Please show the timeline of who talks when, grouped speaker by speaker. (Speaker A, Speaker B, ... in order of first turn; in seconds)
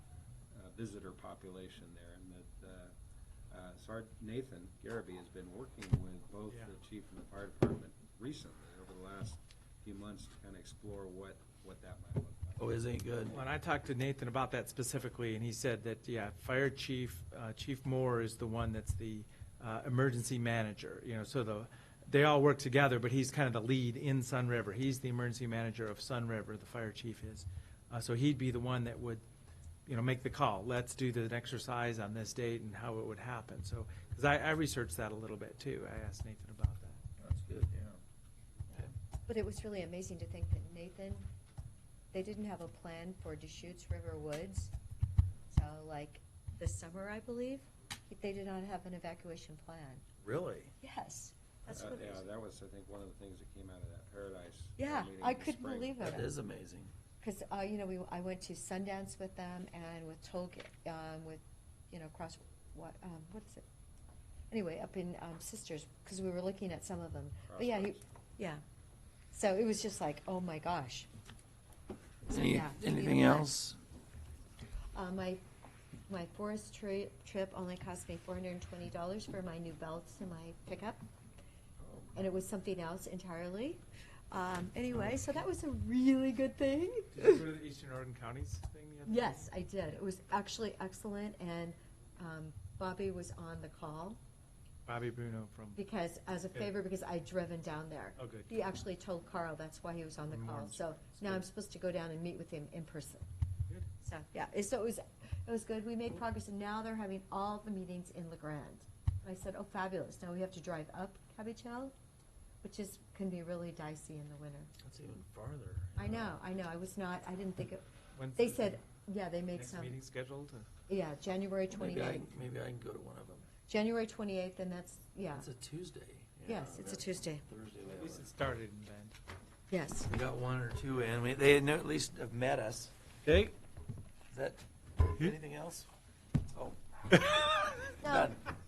Speaker A: 0.5-2.9, 3.5-12.8, 51.7-56.2, 67.5-68.0
Speaker B: 12.6-13.4, 37.2-38.0, 50.2-50.8, 56.0-56.9, 72.3-73.8, 81.8-82.2, 114.8-116.4, 121.7-123.5, 125.3-128.3, 130.1-132.9, 134.3-135.9, 136.5-138.4
Speaker C: 13.3-29.2, 29.9-37.0, 87.1-89.5, 94.9-95.8, 98.2-98.5, 100.3-101.4, 118.2-118.8, 119.5-120.7, 127.9-129.2, 133.2-133.6
Speaker D: 39.3-41.3, 42.1-44.7, 45.5-50.0, 50.8-52.2, 54.8-56.4, 57.2-63.7, 64.5-68.6, 69.3-71.1, 72.3-73.5, 75.0-75.4, 76.1-81.0, 82.2-87.5, 89.1-94.2, 95.8-103.3, 104.0-111.9, 112.6-114.7, 116.0-117.8, 118.4-120.0, 120.9-122.3, 123.7-125.5, 126.5-127.4, 129.7-130.1, 138.0-138.3